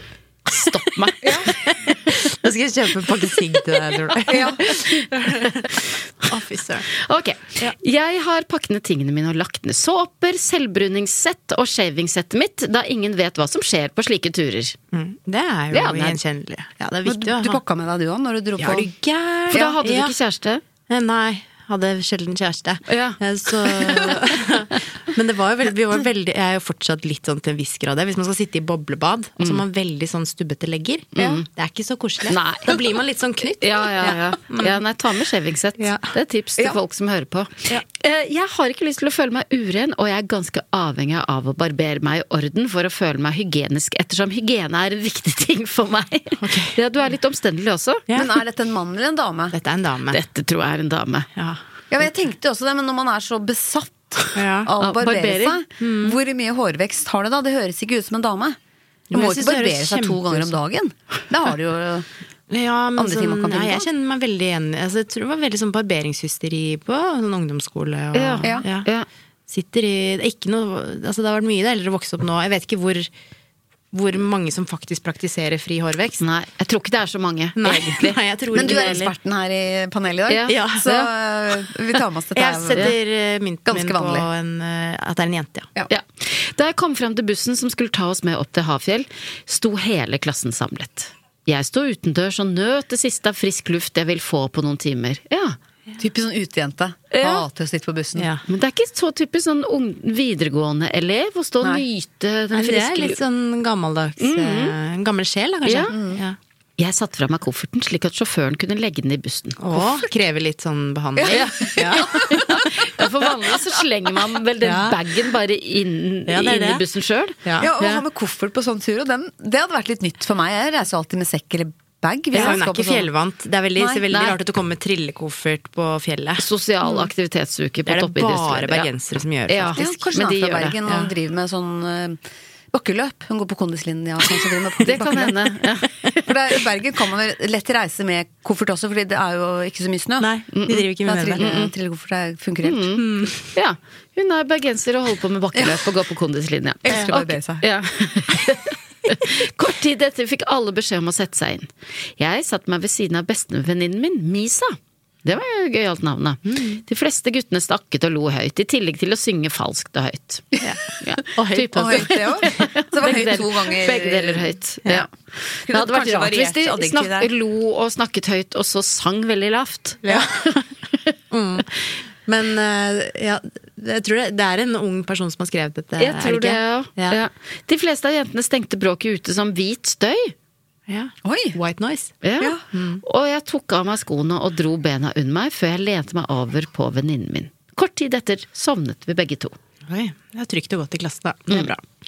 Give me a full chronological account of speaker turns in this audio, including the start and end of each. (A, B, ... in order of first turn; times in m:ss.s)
0:00.5-0:01.3 A
0:01.2-0:01.5 B
0:01.9-0:06.9 C
0:04.3-0:04.8 B
0:05.2-0:05.8 A
0:07.0-0:14.8 A
0:14.9-0:17.6 C
0:15.7-0:16.2 A
0:17.0-0:18.9 B
0:18.6-0:20.2 C
0:19.5-0:19.7 B
0:19.5-0:20.6 A
0:20.9-0:34.8 C
0:22.9-0:24.8 A
0:31.1-0:31.4 A
0:31.2-0:31.4 B
0:32.2-0:32.8 A
0:33.6-0:48.0 A
0:35.8-0:36.1 C
0:46.4-0:46.8 C
0:48.1-0:49.5 B
0:49.5-0:50.2 C
0:50.1-0:51.3 A
0:51.3-0:51.6 C
0:51.9-0:58.6 B
0:54.3-0:56.2 C
0:54.8-0:55.5 A
0:59.1-1:00.6 C
0:59.1-1:02.1 B
1:02.5-1:08.9 C
1:03.0-1:03.8 B
1:08.1-1:09.0 A
1:09.5-1:13.1 C
1:13.9-1:16.2 C
1:16.2-1:18.8 A
1:17.6-1:19.1 C
1:18.5-1:22.9 B
1:20.3-1:21.1 A
1:20.5-1:20.8 C
1:22.3-1:25.7 C
1:23.6-1:24.3 B
1:25.9-1:35.6 A
1:36.0-1:38.3 B
1:37.1-1:37.4 A
1:38.2-1:38.4 C
1:38.5-1:43.2 A
1:42.5-1:46.4 C
1:44.2-1:44.7 A
1:45.6-1:45.9 A
1:45.9-1:46.2 B
1:46.8-1:49.8 A
1:49.6-1:52.7 C
1:51.2-1:52.4 B
1:51.3-1:58.0 A
1:54.6-1:55.0 C
1:56.3-1:56.8 C
1:57.4-1:57.7 C
1:57.6-2:03.1 B
2:02.3-2:02.6 A
2:02.3-2:06.4 C
2:03.8-2:04.1 B
2:06.4-2:08.9 A
2:07.8-2:10.0 C
2:09.5-2:10.8 A
2:09.8-2:12.2 B
2:10.8-2:11.1 C
2:12.7-2:15.4 B
2:14.8-2:16.2 A
2:16.2-2:20.3 B
2:20.2-2:21.6 C
2:20.5-2:21.7 A
2:21.0-2:22.9 B
2:22.6-2:50.6 A
2:22.9-2:23.4 C
2:25.5-2:25.8 B
2:26.8-2:27.6 B
2:36.4-2:36.8 C
2:41.3-2:42.6 C
2:41.8-2:45.0 B
2:45.7-2:47.3 B
2:50.0-2:50.6 C
2:51.3-2:51.7 C
2:52.2-2:57.2 C
2:56.0-3:00.3 A
3:00.9-3:02.2 C
3:01.2-3:01.6 B
3:02.2-3:09.5 A
3:02.7-3:03.0 C
3:09.9-3:11.8 C